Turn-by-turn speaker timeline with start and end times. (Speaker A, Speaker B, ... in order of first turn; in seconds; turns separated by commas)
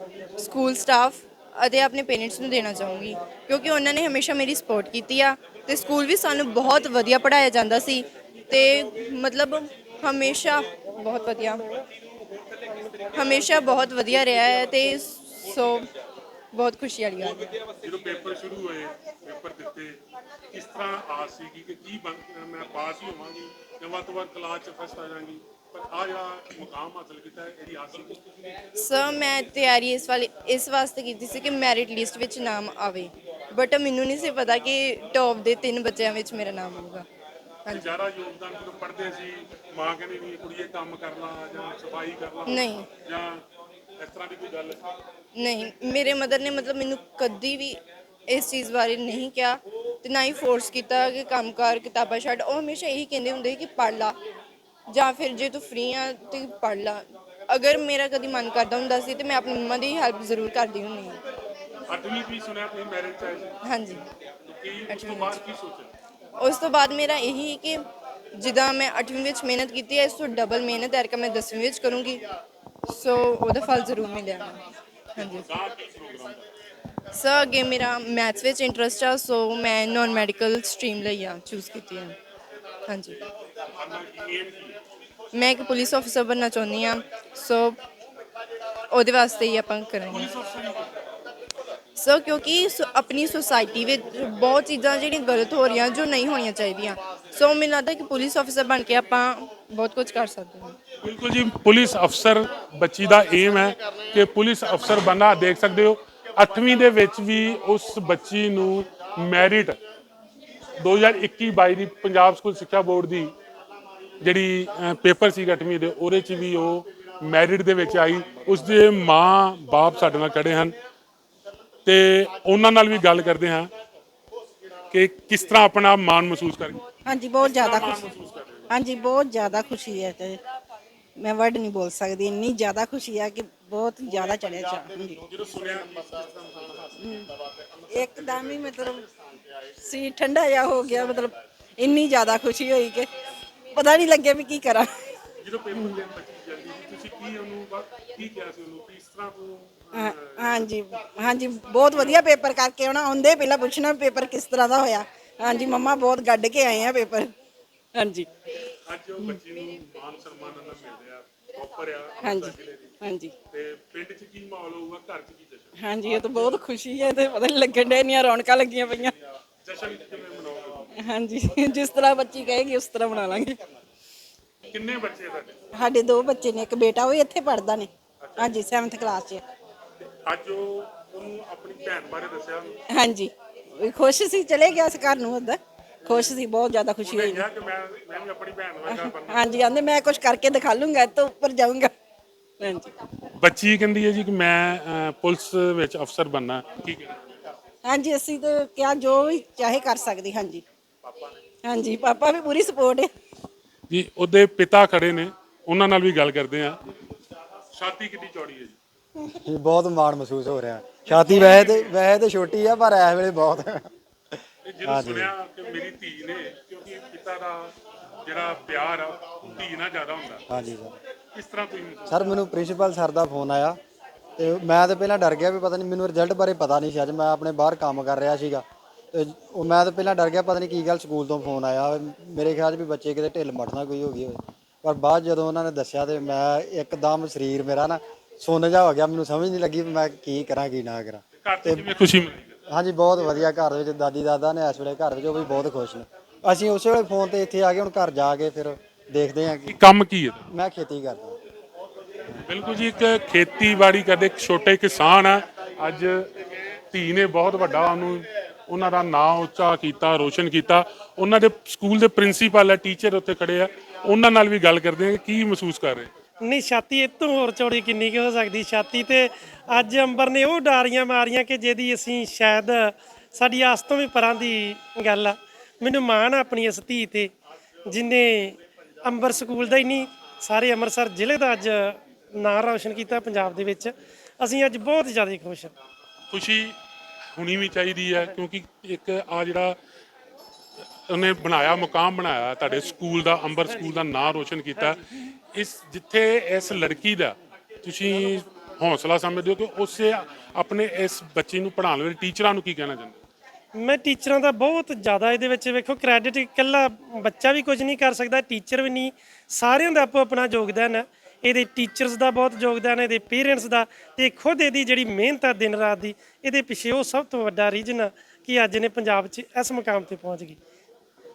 Speaker A: 0.4-11.6, Speaker A: 13.1-15.9, Speaker A: 16.5-17.4, Speaker B: 17.7-20.0, Speaker B: 20.5-28.2, Speaker A: 28.8-37.0, Speaker A: 37.7-38.0, Speaker B: 37.7-43.4, Speaker A: 42.5-42.9, Speaker B: 44.0-44.9, Speaker A: 45.4-54.1, Speaker A: 54.9-61.2, Speaker B: 61.9-63.6, Speaker A: 63.6-64.0, Speaker B: 64.5-65.9, Speaker A: 64.9-65.4, Speaker A: 66.4-67.8, Speaker A: 68.4-72.2, Speaker A: 72.9-74.6, Speaker A: 75.2-75.5, Speaker B: 75.2-76.5, Speaker A: 77.1-82.2, Speaker A: 82.9-83.2, Speaker B: 83.8-84.8, Speaker A: 85.3-87.8, Speaker A: 88.9-90.3, Speaker B: 90.1-90.9, Speaker A: 92.0-100.8, Speaker B: 101.0-109.8, Speaker B: 110.8-113.3, Speaker B: 114.2-120.8, Speaker B: 121.8-123.7, Speaker B: 124.9-126.8, Speaker C: 127.1-128.1, Speaker B: 127.4-128.7, Speaker C: 128.7-130.4, Speaker C: 131.2-135.2, Speaker B: 135.2-137.2, Speaker C: 137.0-137.3, Speaker B: 137.9-139.3, Speaker C: 137.9-139.0, Speaker C: 139.8-143.1, Speaker C: 143.7-144.9, Speaker B: 145.4-150.7, Speaker C: 149.9-157.3, Speaker B: 151.9-152.2, Speaker C: 157.9-158.3, Speaker B: 158.7-163.0, Speaker C: 162.2-163.3, Speaker B: 163.5-165.7, Speaker C: 165.8-169.2, Speaker B: 169.6-170.9, Speaker C: 171.0-173.6, Speaker B: 174.7-175.6, Speaker C: 175.7-179.4, Speaker B: 178.2-178.7, Speaker B: 180.1-182.7, Speaker C: 182.9-187.4, Speaker B: 187.0-189.7, Speaker C: 188.9-191.9, Speaker C: 192.6-192.9, Speaker B: 193.4-197.4, Speaker C: 197.8-200.6, Speaker B: 201.1-201.4, Speaker C: 201.6-203.1, Speaker B: 203.9-206.8, Speaker B: 207.7-208.8, Speaker D: 209.3-213.9, Speaker B: 211.1-212.0, Speaker B: 214.7-220.4, Speaker D: 214.8-215.3, Speaker D: 220.5-221.0, Speaker B: 221.3-222.2, Speaker D: 222.1-223.8, Speaker D: 224.4-241.9, Speaker B: 241.4-242.6, Speaker D: 242.7-249.8, Speaker B: 249.7-250.4, Speaker D: 250.5-251.4, Speaker B: 252.5-256.3, Speaker B: 256.9-266.1, Speaker E: 266.4-277.3, Speaker E: 277.9-285.7, Speaker B: 286.3-286.8, Speaker B: 287.4-289.8, Speaker B: 291.1-295.0, Speaker B: 295.5-303.2, Speaker E: 303.8-320.6